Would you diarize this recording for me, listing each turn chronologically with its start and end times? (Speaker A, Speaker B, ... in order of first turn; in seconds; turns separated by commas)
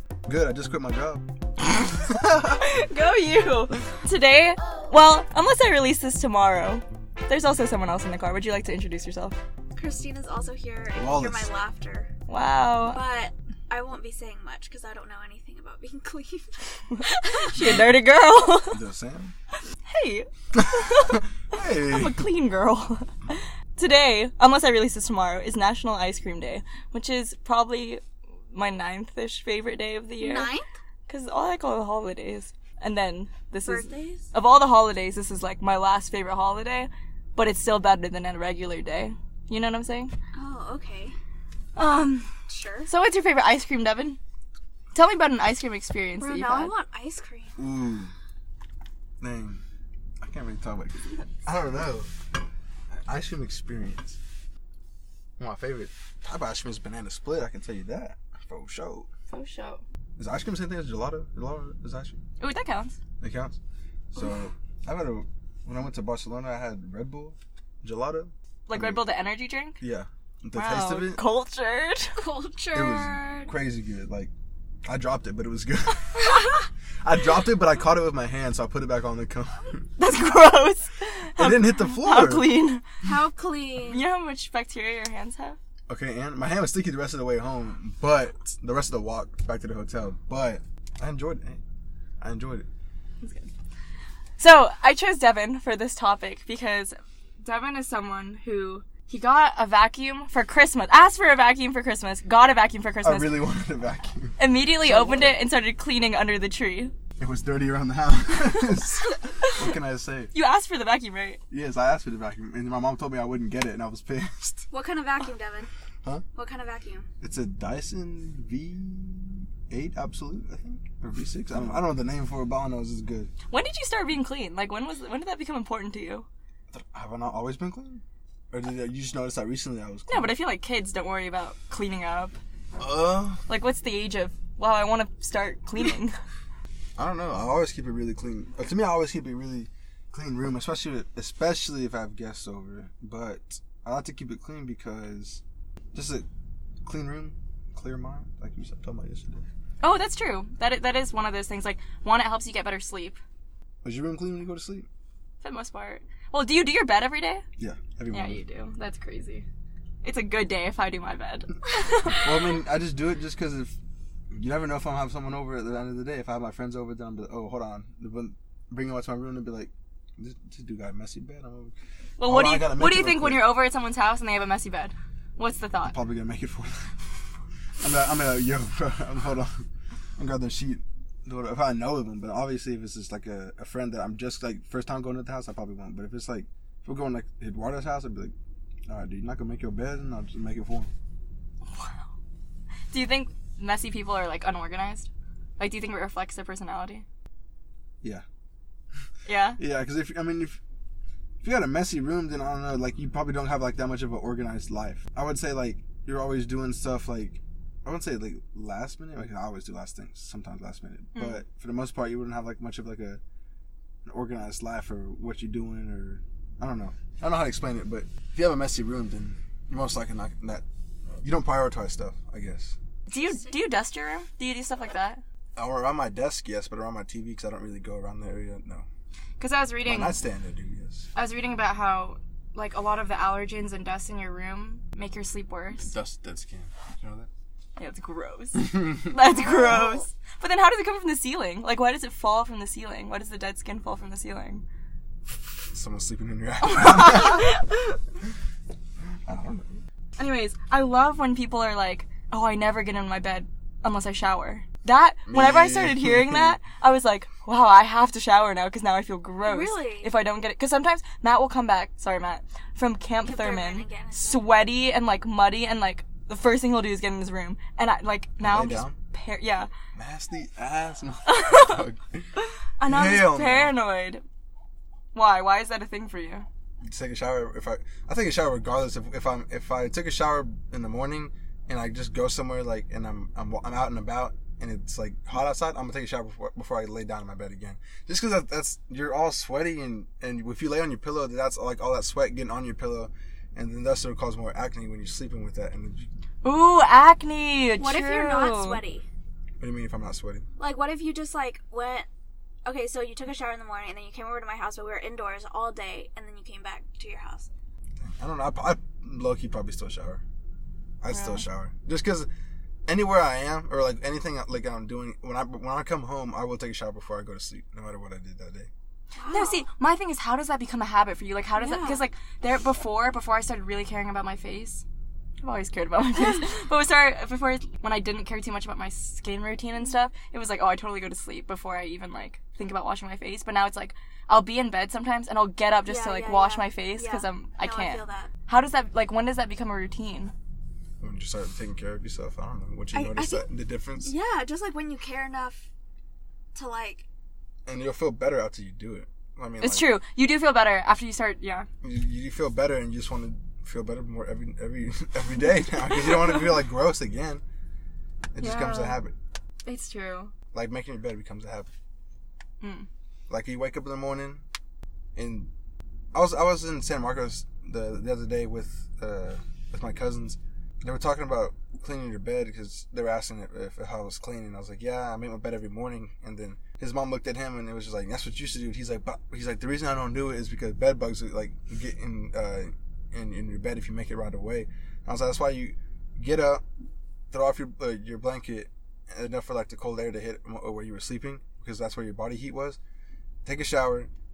Speaker A: 0.2-2.7, Speaker B: 2.6-9.4, Speaker C: 9.7-12.1, Speaker A: 10.9-11.5, Speaker B: 12.3-13.0, Speaker C: 12.8-17.7, Speaker B: 16.9-18.8, Speaker A: 17.6-17.8, Speaker A: 18.7-19.3, Speaker B: 19.9-30.5, Speaker A: 20.5-22.2, Speaker C: 30.2-30.7, Speaker B: 31.1-40.1, Speaker C: 33.6-34.3, Speaker C: 40.3-41.1, Speaker B: 41.8-42.3, Speaker C: 42.5-42.9, Speaker B: 42.9-44.2, Speaker B: 44.9-46.7, Speaker C: 46.2-47.5, Speaker A: 47.6-48.1, Speaker A: 49.2-49.6, Speaker A: 50.2-52.1, Speaker A: 52.9-54.2, Speaker A: 55.4-59.1, Speaker B: 59.3-59.8, Speaker A: 60.2-62.2, Speaker B: 62.4-63.0, Speaker A: 63.2-63.6, Speaker A: 64.1-69.0, Speaker B: 68.7-69.8, Speaker A: 69.8-71.2, Speaker B: 70.5-72.2, Speaker C: 72.2-73.5, Speaker A: 72.7-74.3, Speaker A: 74.8-76.4, Speaker A: 77.0-79.9, Speaker B: 80.0-82.8, Speaker A: 81.4-82.5, Speaker C: 83.0-84.0, Speaker B: 83.9-85.6, Speaker A: 85.9-91.6, Speaker A: 92.2-92.7, Speaker B: 93.2-93.5, Speaker B: 94.4-103.4, Speaker A: 103.0-105.3, Speaker B: 104.4-106.9, Speaker A: 107.2-110.3, Speaker B: 110.3-111.4, Speaker A: 111.5-114.7, Speaker C: 114.7-115.7, Speaker C: 116.3-117.1, Speaker A: 117.2-123.3, Speaker B: 123.5-126.3, Speaker A: 126.7-130.3, Speaker B: 130.1-132.4, Speaker A: 132.8-133.4, Speaker B: 133.5-136.2, Speaker A: 137.0-145.4, Speaker A: 145.9-146.2, Speaker A: 146.8-149.4, Speaker B: 149.8-153.2, Speaker A: 153.8-154.9, Speaker B: 155.4-157.4, Speaker A: 157.6-158.4, Speaker B: 158.1-159.4, Speaker B: 160.0-162.3, Speaker A: 162.1-163.8, Speaker A: 164.3-173.6, Speaker B: 172.2-175.9, Speaker A: 175.8-177.1, Speaker A: 177.8-179.6, Speaker A: 180.2-188.3, Speaker A: 188.9-190.9, Speaker B: 191.7-192.0, Speaker B: 192.9-197.0, Speaker B: 199.2-199.6, Speaker A: 199.6-200.6, Speaker A: 201.4-213.2, Speaker B: 211.1-211.4, Speaker A: 214.1-220.6, Speaker A: 221.2-222.8, Speaker B: 223.1-225.2, Speaker C: 223.1-223.4, Speaker A: 225.6-228.8, Speaker B: 229.4-230.2, Speaker A: 229.8-231.1, Speaker B: 231.1-235.9, Speaker A: 235.8-237.3, Speaker B: 237.8-244.6, Speaker A: 238.6-239.6, Speaker A: 245.7-247.6, Speaker B: 246.6-248.0, Speaker A: 249.2-249.8, Speaker B: 250.2-269.7, Speaker A: 255.3-256.6, Speaker C: 259.4-260.1, Speaker C: 263.2-264.5, Speaker A: 268.4-268.9, Speaker A: 269.9-272.3, Speaker B: 271.2-271.8, Speaker B: 272.4-274.2, Speaker A: 272.8-273.8, Speaker B: 275.1-276.5, Speaker A: 276.8-296.1, Speaker B: 296.4-298.8, Speaker C: 297.8-299.0, Speaker A: 299.6-300.4, Speaker C: 300.6-302.1, Speaker C: 302.6-307.5, Speaker A: 308.0-310.2, Speaker A: 311.0-312.3, Speaker B: 311.1-311.4, Speaker A: 312.9-318.7, Speaker C: 319.2-319.6, Speaker B: 319.3-324.8, Speaker C: 321.6-322.0, Speaker B: 325.4-340.3, Speaker C: 335.9-338.3, Speaker A: 341.0-344.1, Speaker C: 342.9-343.4, Speaker C: 344.0-345.7, Speaker C: 346.5-347.0, Speaker A: 347.6-349.9, Speaker B: 349.6-351.7, Speaker A: 351.8-357.4, Speaker A: 358.3-359.1, Speaker B: 358.4-359.0, Speaker B: 359.6-360.3, Speaker A: 360.5-361.7, Speaker B: 362.6-362.9, Speaker A: 363.3-364.4, Speaker A: 365.1-365.5, Speaker A: 366.1-386.6, Speaker A: 387.3-392.8, Speaker A: 393.4-394.1